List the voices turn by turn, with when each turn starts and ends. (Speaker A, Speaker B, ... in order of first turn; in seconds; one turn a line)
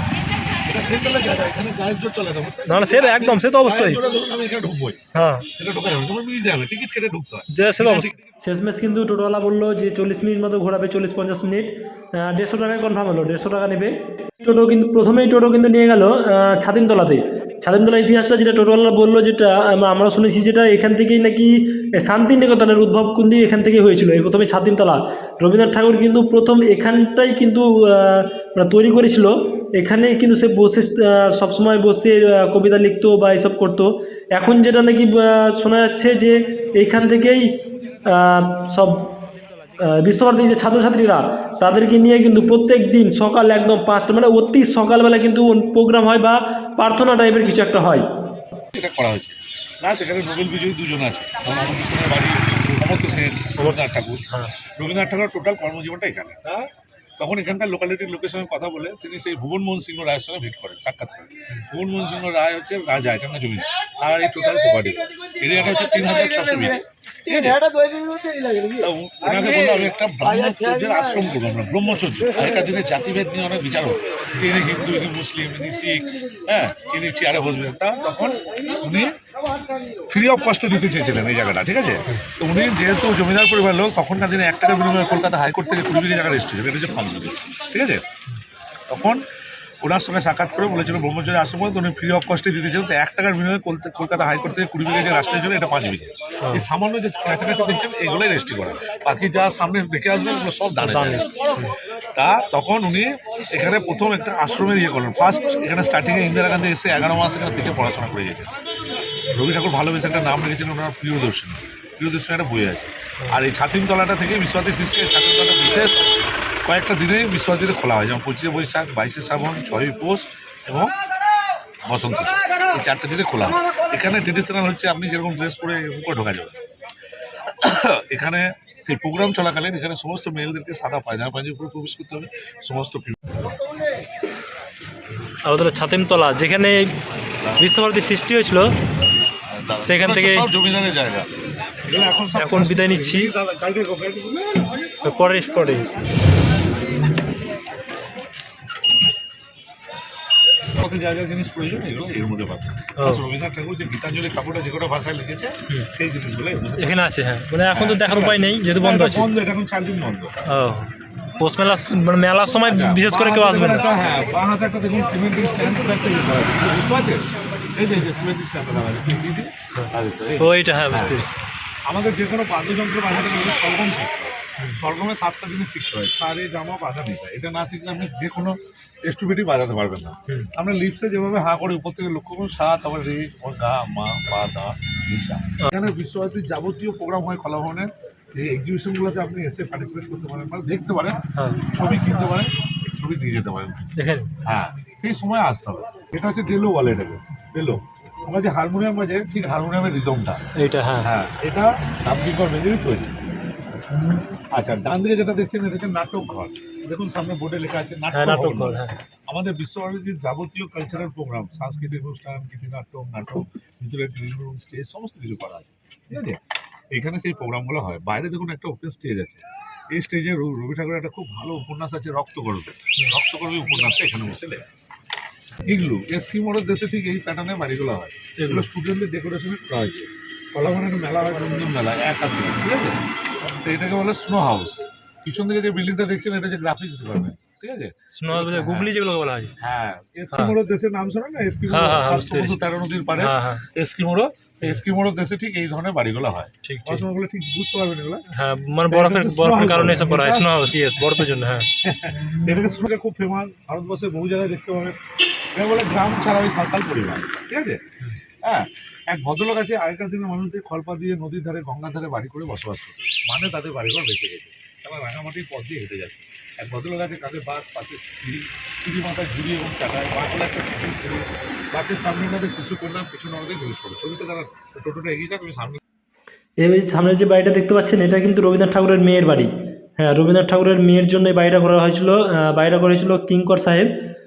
Speaker A: 0.5-5.0
Speaker B: 2.7-4.0
Speaker B: 5.1-5.5
Speaker A: 5.5-8.2
Speaker B: 7.5-39.2
Speaker B: 39.8-48.0
Speaker A: 48.7-67.8
Speaker C: 68.2-68.5
Speaker A: 68.6-79.2
Speaker A: 80.1-88.0
Speaker A: 88.9-89.2
Speaker A: 89.8-101.3
Speaker B: 100.8-101.6
Speaker A: 102.1-108.5
Speaker A: 109.3-120.9
Speaker A: 121.8-126.5
Speaker A: 127.5-133.4
Speaker B: 135.4-136.9
Speaker B: 137.6-138.7
Speaker A: 139.5-141.3
Speaker B: 139.8-140.5
Speaker A: 141.8-144.8
Speaker B: 142.3-143.3
Speaker B: 145.0-145.9
Speaker A: 150.7-157.0
Speaker B: 156.8-159.3
Speaker A: 157.7-160.3
Speaker B: 160.5-160.9
Speaker B: 161.4-164.0
Speaker A: 162.6-171.3
Speaker C: 170.4-171.3
Speaker B: 170.4-171.3
Speaker A: 171.8-200.4
Speaker B: 191.4-191.8
Speaker B: 193.9-194.3
Speaker B: 200.5-201.1
Speaker A: 201.0-203.1
Speaker A: 204.5-216.4
Speaker B: 208.1-208.9
Speaker A: 216.9-224.7
Speaker A: 225.6-238.9
Speaker B: 228.4-228.7
Speaker B: 238.2-239.5
Speaker A: 239.6-248.3
Speaker C: 241.7-242.6
Speaker B: 243.2-243.6
Speaker B: 246.6-247.0
Speaker B: 248.3-251.3
Speaker A: 248.9-251.2
Speaker C: 249.1-251.7
Speaker A: 251.8-255.0
Speaker A: 255.5-257.8
Speaker A: 258.4-275.8
Speaker B: 276.6-284.1